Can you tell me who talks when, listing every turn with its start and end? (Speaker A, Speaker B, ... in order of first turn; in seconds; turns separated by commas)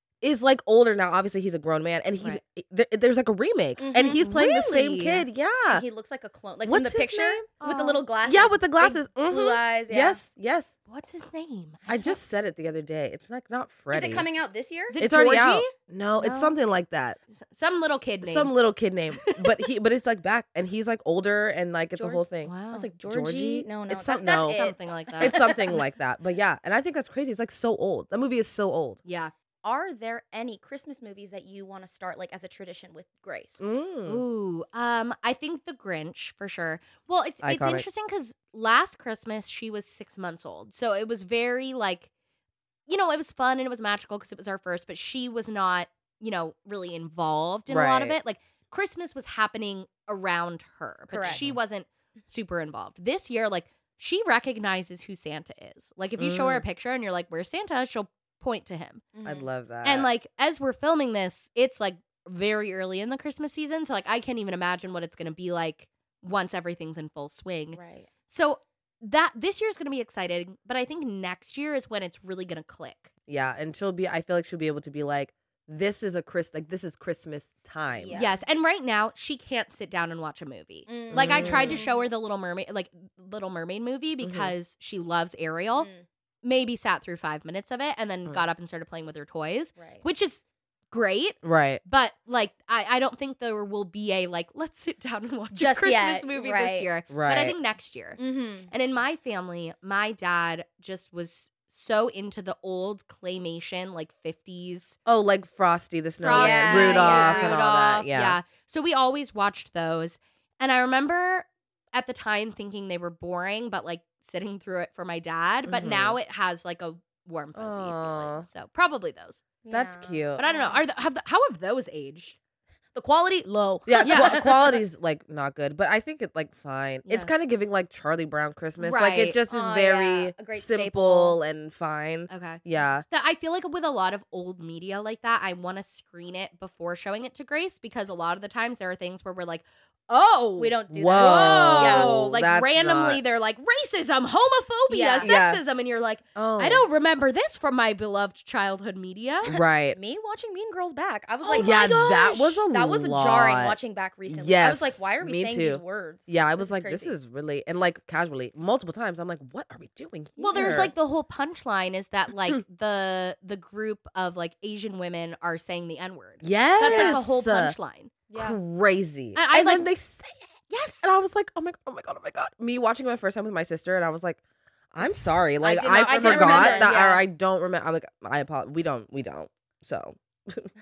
Speaker A: 0.2-5.8, Speaker B: 3.8-4.2, Speaker C: 4.1-5.3, Speaker B: 5.7-10.2, Speaker A: 6.6-7.5, Speaker C: 7.6-8.0, Speaker A: 8.2-10.7, Speaker C: 10.9-12.2, Speaker A: 11.9-14.2, Speaker B: 13.9-15.0, Speaker C: 14.9-16.5, Speaker A: 15.0-17.2, Speaker C: 17.3-18.5, Speaker A: 18.2-24.6, Speaker C: 19.2-19.6, Speaker B: 21.9-25.7, Speaker C: 22.4-22.9, Speaker C: 24.2-25.5, Speaker A: 25.2-29.0, Speaker C: 29.0-29.3, Speaker B: 29.6-33.6, Speaker A: 33.6-34.2, Speaker C: 34.0-42.1, Speaker A: 37.4-37.9, Speaker C: 42.9-59.0, Speaker A: 47.7-48.2, Speaker B: 51.1-51.4, Speaker A: 51.2-51.6, Speaker A: 56.2-56.6, Speaker B: 59.1-59.4, Speaker A: 59.2-60.1, Speaker C: 59.8-73.1, Speaker B: 67.7-68.1, Speaker A: 73.3-78.2, Speaker B: 77.9-78.4, Speaker C: 78.1-85.9, Speaker B: 80.9-82.1, Speaker A: 81.1-81.8, Speaker A: 84.2-84.5, Speaker B: 85.7-86.0, Speaker C: 86.4-105.0, Speaker B: 89.8-90.0, Speaker A: 91.4-91.8, Speaker B: 95.5-96.9, Speaker A: 97.1-97.5, Speaker B: 98.2-98.7, Speaker A: 105.0-108.4, Speaker C: 106.2-119.4, Speaker B: 106.3-107.5, Speaker A: 115.6-116.2, Speaker A: 117.5-118.5, Speaker B: 119.6-120.8, Speaker A: 119.7-120.4, Speaker C: 120.4-122.3, Speaker B: 122.9-124.8, Speaker A: 123.8-133.0, Speaker C: 124.0-124.4, Speaker C: 127.0-127.3, Speaker C: 128.8-129.4, Speaker B: 129.5-131.4, Speaker C: 132.3-149.5, Speaker B: 140.6-142.2, Speaker A: 140.9-143.2, Speaker B: 144.9-145.3, Speaker A: 145.2-145.6, Speaker A: 146.3-146.8, Speaker A: 149.4-150.0, Speaker B: 149.5-157.1, Speaker C: 151.4-151.7, Speaker A: 151.5-160.9, Speaker B: 160.4-160.9, Speaker C: 160.4-168.1, Speaker A: 166.4-167.8, Speaker B: 166.8-167.2, Speaker B: 168.3-168.6, Speaker A: 168.3-174.4, Speaker C: 169.3-169.9, Speaker C: 170.7-171.1, Speaker A: 174.9-180.7, Speaker C: 175.6-176.9, Speaker B: 175.9-177.2